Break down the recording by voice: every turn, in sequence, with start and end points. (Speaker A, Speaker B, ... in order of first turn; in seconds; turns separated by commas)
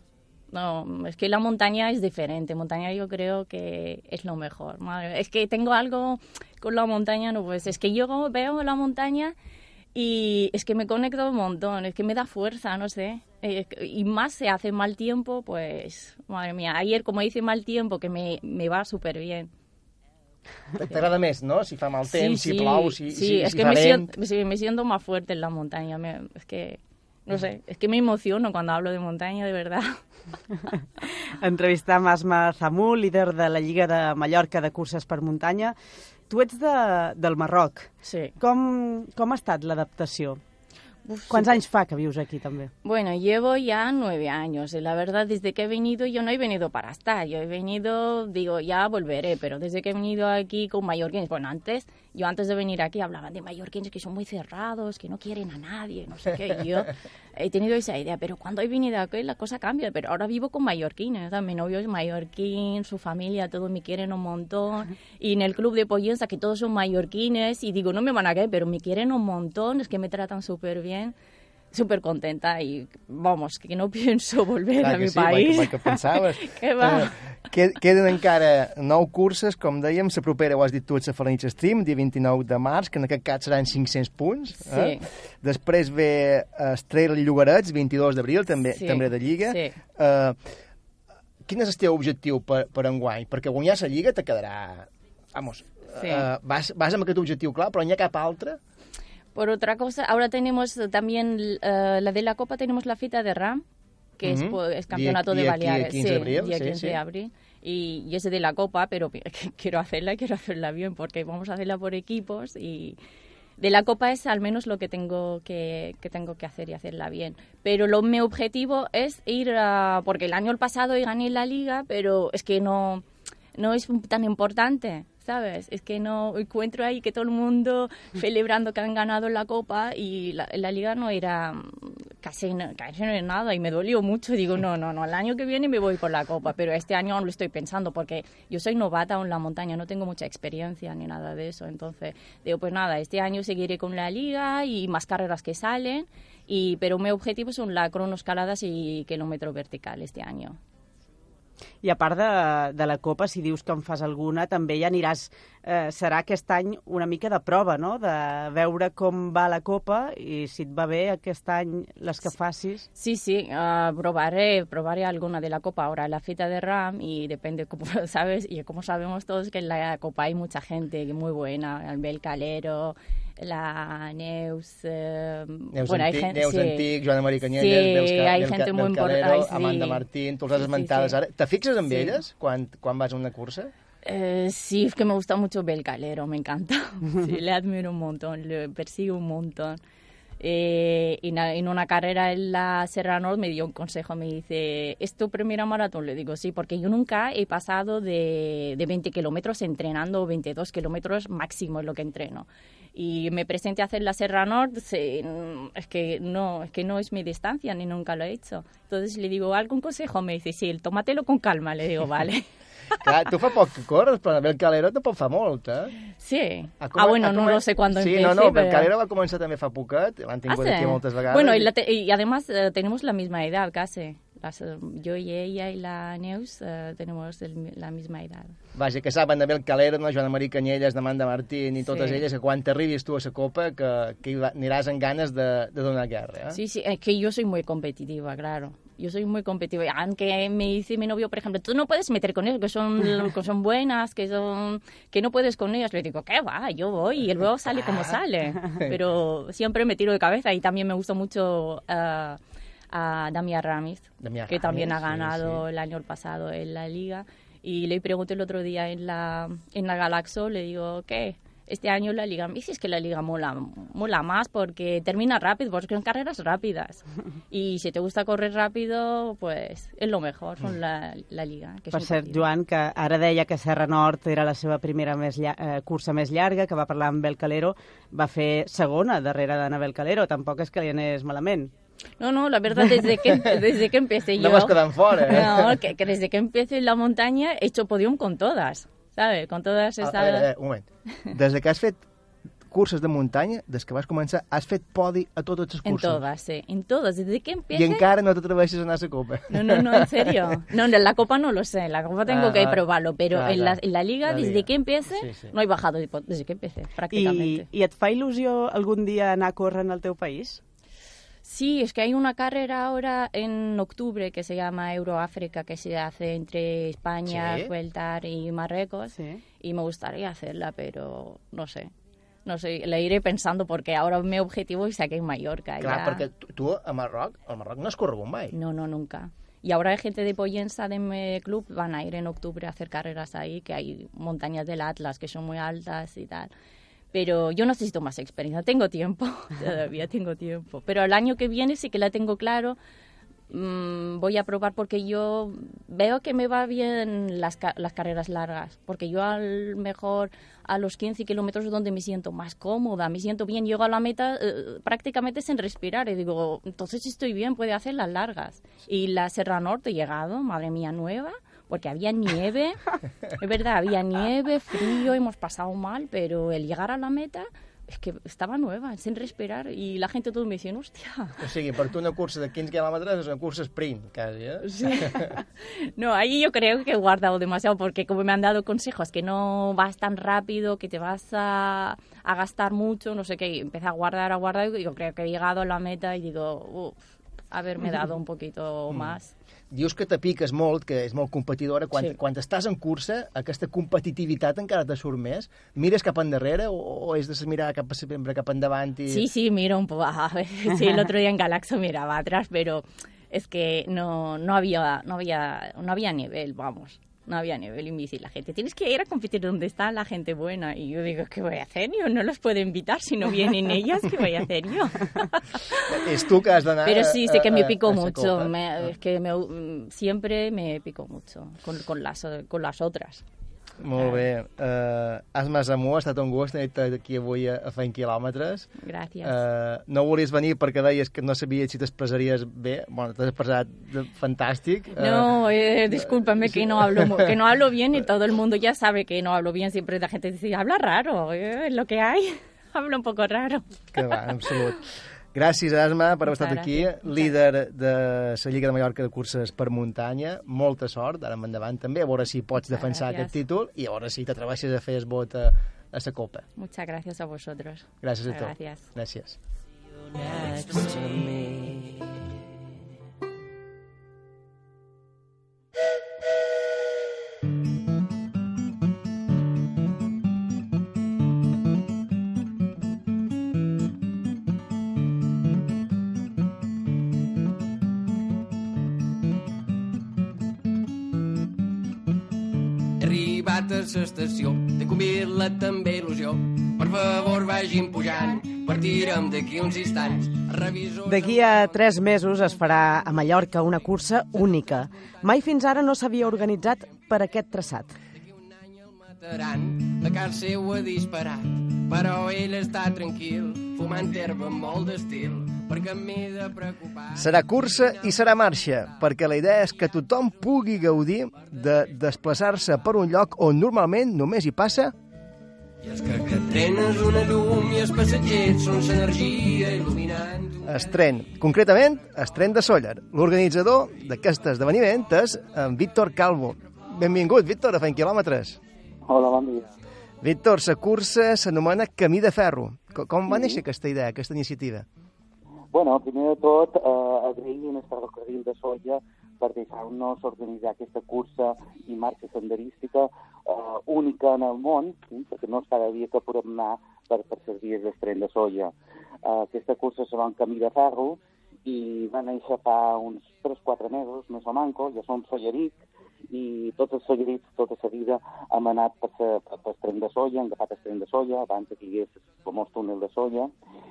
Speaker A: 0.5-9.3, Speaker A: 9.9-19.5, Speaker B: 20.7-24.1, Speaker A: 22.1-30.0, Speaker C: 31.4-35.8, Speaker C: 36.3-40.4, Speaker A: 38.0-38.3, Speaker A: 41.0-41.6, Speaker C: 41.3-42.7, Speaker A: 42.8-71.1, Speaker A: 71.7-77.2, Speaker B: 74.8-90.4, Speaker A: 84.6-85.1, Speaker A: 88.8-89.8, Speaker B: 91.5-98.6, Speaker A: 96.0-96.3, Speaker A: 99.3-103.6, Speaker A: 104.2-113.0, Speaker B: 104.2-107.0, Speaker A: 113.6-123.0, Speaker A: 123.6-150.6, Speaker C: 151.8-162.9, Speaker A: 163.0-176.9, Speaker B: 175.7-183.7, Speaker A: 177.5-181.2, Speaker A: 181.9-182.2, Speaker A: 184.0-189.8, Speaker A: 190.4-212.4, Speaker B: 213.0-216.0, Speaker A: 216.2-218.9, Speaker B: 216.8-221.7, Speaker A: 220.5-228.6, Speaker B: 228.7-236.6, Speaker A: 231.8-232.2, Speaker A: 236.5-252.4, Speaker A: 252.9-272.5, Speaker B: 254.2-255.6, Speaker C: 271.9-281.7, Speaker A: 282.2-290.5, Speaker B: 283.3-283.6, Speaker B: 284.4-285.8, Speaker B: 290.0-292.0, Speaker B: 292.7-296.2, Speaker A: 295.8-298.0, Speaker B: 297.7-300.6, Speaker A: 299.5-307.7, Speaker B: 302.3-305.6, Speaker C: 307.1-310.6, Speaker A: 311.4-321.9, Speaker B: 317.2-317.7, Speaker C: 319.1-319.4, Speaker A: 322.5-326.2, Speaker B: 325.8-328.6, Speaker A: 328.5-336.5, Speaker A: 337.1-342.8, Speaker A: 343.5-371.4, Speaker B: 371.4-375.3, Speaker A: 374.6-389.3, Speaker B: 389.7-399.2, Speaker A: 399.1-416.0, Speaker B: 415.9-418.5, Speaker A: 416.8-423.2, Speaker B: 423.8-428.7, Speaker A: 424.0-424.2, Speaker A: 428.8-429.4, Speaker B: 429.2-437.4, Speaker A: 435.0-443.8, Speaker B: 443.9-456.4, Speaker A: 446.2-447.4, Speaker A: 452.6-453.4, Speaker A: 456.6-458.9, Speaker B: 458.0-459.4, Speaker D: 460.8-461.4, Speaker D: 483.0-491.9, Speaker C: 491.1-497.9, Speaker D: 498.1-508.7, Speaker B: 507.1-515.0, Speaker D: 515.8-520.9, Speaker B: 520.6-528.6, Speaker E: 529.1-529.7, Speaker B: 530.2-534.9, Speaker E: 533.3-533.6, Speaker E: 535.7-548.7, Speaker E: 549.2-555.8, Speaker E: 556.3-563.5